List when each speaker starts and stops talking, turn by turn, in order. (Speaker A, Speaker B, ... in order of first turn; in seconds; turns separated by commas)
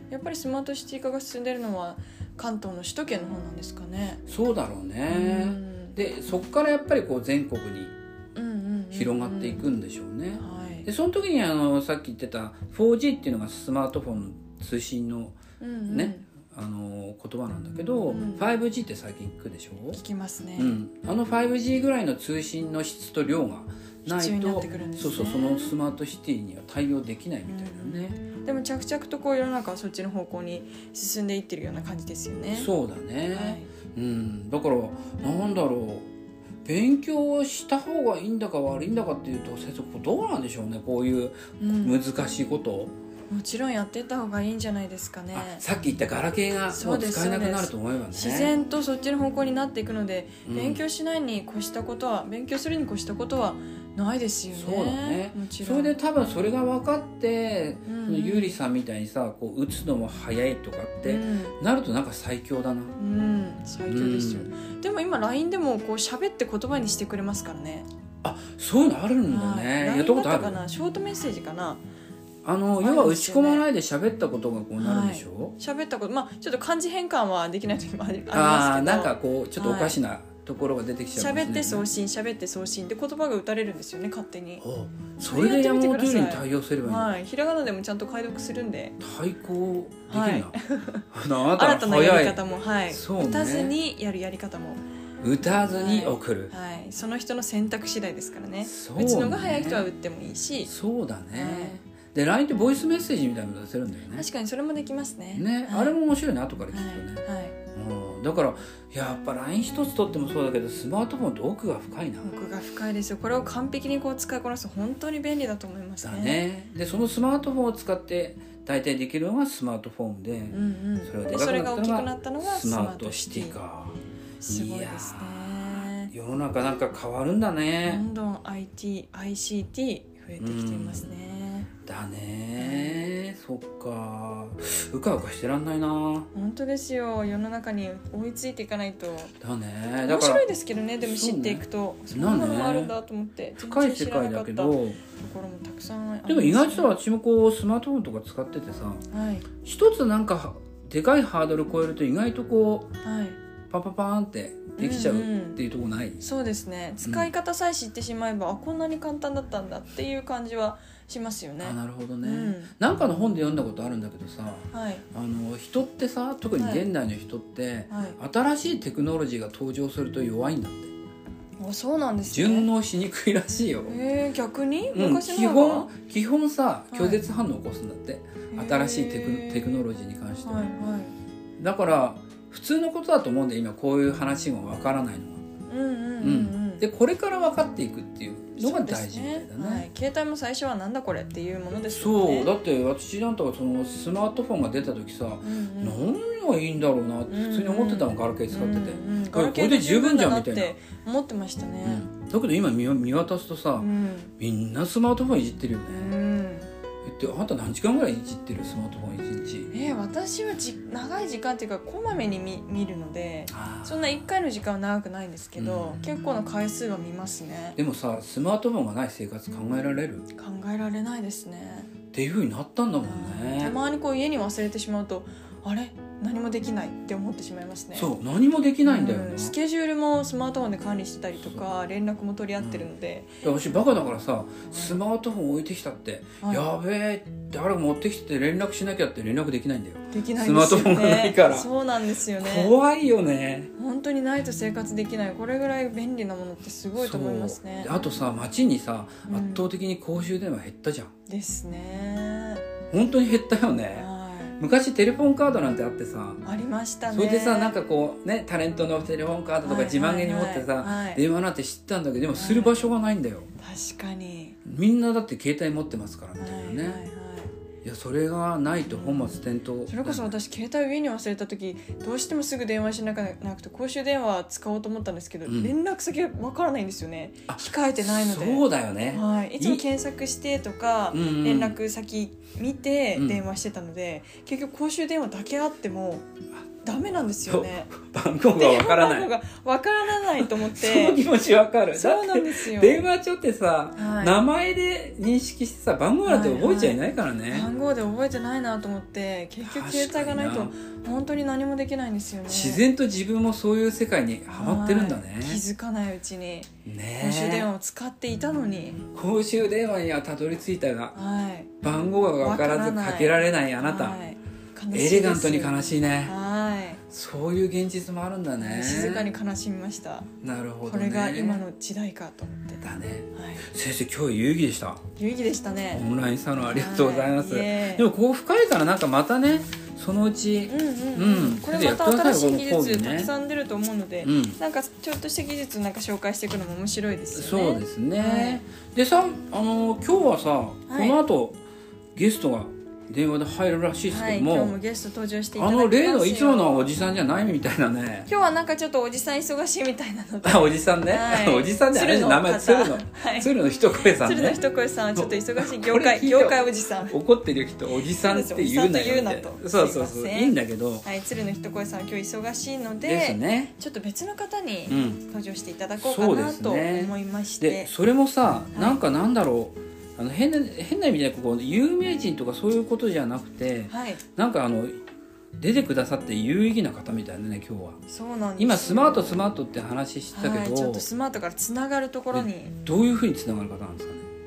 Speaker A: 0.1-4.2, Speaker B: 4.3-7.9, Speaker A: 5.1-6.0, Speaker A: 8.3-9.6, Speaker B: 8.9-15.4, Speaker A: 10.4-10.9, Speaker A: 15.6-16.3, Speaker B: 15.9-20.0, Speaker A: 18.1-18.5, Speaker A: 19.9-20.8, Speaker B: 20.6-28.2, Speaker A: 24.1-25.7, Speaker A: 27.5-32.7, Speaker B: 32.5-36.1, Speaker A: 33.3-33.7, Speaker B: 36.6-42.9, Speaker A: 41.6-42.0, Speaker A: 43.3-45.6, Speaker B: 45.3-48.5, Speaker A: 46.7-56.0, Speaker B: 50.4-50.8, Speaker B: 54.5-62.9, Speaker A: 57.8-58.6, Speaker A: 61.0-61.6, Speaker A: 63.0-67.9, Speaker B: 63.9-64.5, Speaker B: 68.2-70.6, Speaker A: 69.3-71.8, Speaker B: 72.4-75.5, Speaker A: 72.8-73.6, Speaker A: 74.8-80.0, Speaker B: 78.3-81.8, Speaker A: 81.2-84.6, Speaker B: 84.6-87.2, Speaker A: 85.2-89.0, Speaker B: 89.0-90.6, Speaker A: 90.1-94.8, Speaker B: 91.1-93.7, Speaker B: 95.2-96.5, Speaker A: 95.7-100.7, Speaker B: 98.6-99.8, Speaker B: 100.6-104.2, Speaker A: 101.3-101.8, Speaker A: 104.1-106.0, Speaker B: 105.3-112.3, Speaker A: 106.7-107.5, Speaker A: 112.2-116.4, Speaker B: 116.0-128.0, Speaker A: 120.5-123.6, Speaker A: 124.4-126.1, Speaker A: 127.8-131.7, Speaker B: 130.4-131.1, Speaker B: 131.8-136.3, Speaker A: 132.6-133.1, Speaker A: 136.3-139.3, Speaker B: 139.4-142.9, Speaker A: 140.0-147.0, Speaker B: 143.6-145.0, Speaker B: 146.3-149.0, Speaker A: 149.1-149.4, Speaker B: 149.6-152.9, Speaker A: 153.0-153.4, Speaker B: 153.7-156.2, Speaker A: 154.8-155.6, Speaker A: 156.2-162.7, Speaker B: 157.0-157.3, Speaker B: 161.6-170.9, Speaker A: 164.7-165.0, Speaker A: 166.6-166.8, Speaker A: 167.9-168.2, Speaker A: 171.6-172.7, Speaker B: 172.3-173.9, Speaker A: 173.9-175.9, Speaker B: 174.9-180.6, Speaker A: 176.9-177.2, Speaker A: 178.5-179.8, Speaker A: 180.4-181.1, Speaker B: 181.6-185.4, Speaker A: 185.7-186.8, Speaker B: 186.2-189.9, Speaker A: 188.6-192.5, Speaker B: 191.9-200.7, Speaker A: 195.4-196.0, Speaker A: 197.3-202.1, Speaker B: 201.8-206.1, Speaker A: 203.8-204.3, Speaker A: 205.9-206.7, Speaker B: 207.0-209.7, Speaker A: 209.7-217.8, Speaker B: 213.5-214.1, Speaker B: 215.6-216.0, Speaker B: 217.8-220.2, Speaker A: 220.3-221.9, Speaker B: 222.1-223.8, Speaker A: 223.0-228.1, Speaker B: 227.9-229.5, Speaker A: 228.8-233.4, Speaker B: 232.6-232.9, Speaker B: 233.4-241.7, Speaker A: 234.7-235.0, Speaker A: 236.4-236.7, Speaker A: 240.1-242.7, Speaker B: 242.3-243.7, Speaker A: 243.8-248.0, Speaker B: 247.0-251.1, Speaker A: 249.2-249.7, Speaker A: 251.3-252.6, Speaker B: 252.9-256.4, Speaker A: 253.9-254.6, Speaker A: 256.4-257.8, Speaker B: 257.1-263.5, Speaker A: 259.6-261.2, Speaker A: 262.3-262.8, Speaker A: 263.6-264.6, Speaker B: 264.6-267.0, Speaker A: 266.4-267.5, Speaker B: 267.8-270.3, Speaker A: 268.9-286.2, Speaker B: 275.4-275.7, Speaker B: 277.5-279.9, Speaker B: 281.1-281.8, Speaker B: 283.1-283.4, Speaker A: 286.8-287.9, Speaker B: 287.1-289.3, Speaker A: 288.5-291.2, Speaker B: 290.3-297.7, Speaker A: 291.9-293.0, Speaker A: 293.9-294.4, Speaker A: 296.2-302.8, Speaker B: 299.6-300.7, Speaker B: 302.5-305.6, Speaker A: 304.5-309.0, Speaker B: 306.9-307.7, Speaker B: 309.1-311.1, Speaker A: 311.1-311.7, Speaker B: 311.8-314.2, Speaker A: 312.4-317.0, Speaker B: 314.9-316.3, Speaker B: 317.1-319.3, Speaker A: 318.6-320.3, Speaker B: 320.4-321.6, Speaker A: 320.8-323.6, Speaker B: 322.8-325.0, Speaker A: 325.2-326.0, Speaker B: 325.9-333.3, Speaker A: 326.7-328.1, Speaker A: 330.7-338.6, Speaker B: 334.2-334.6, Speaker B: 337.3-341.6, Speaker A: 340.9-341.2, Speaker B: 342.1-344.8, Speaker A: 344.1-346.9, Speaker B: 345.6-348.3, Speaker A: 348.3-357.2, Speaker B: 350.4-354.6, Speaker B: 355.1-361.1, Speaker A: 357.9-367.9, Speaker B: 363.0-363.7, Speaker B: 364.9-365.2, Speaker B: 366.0-375.0, Speaker A: 368.7-369.0, Speaker A: 373.9-374.2, Speaker B: 375.6-378.0, Speaker A: 378.1-379.4, Speaker B: 378.6-381.1, Speaker A: 380.3-382.7, Speaker B: 382.3-384.3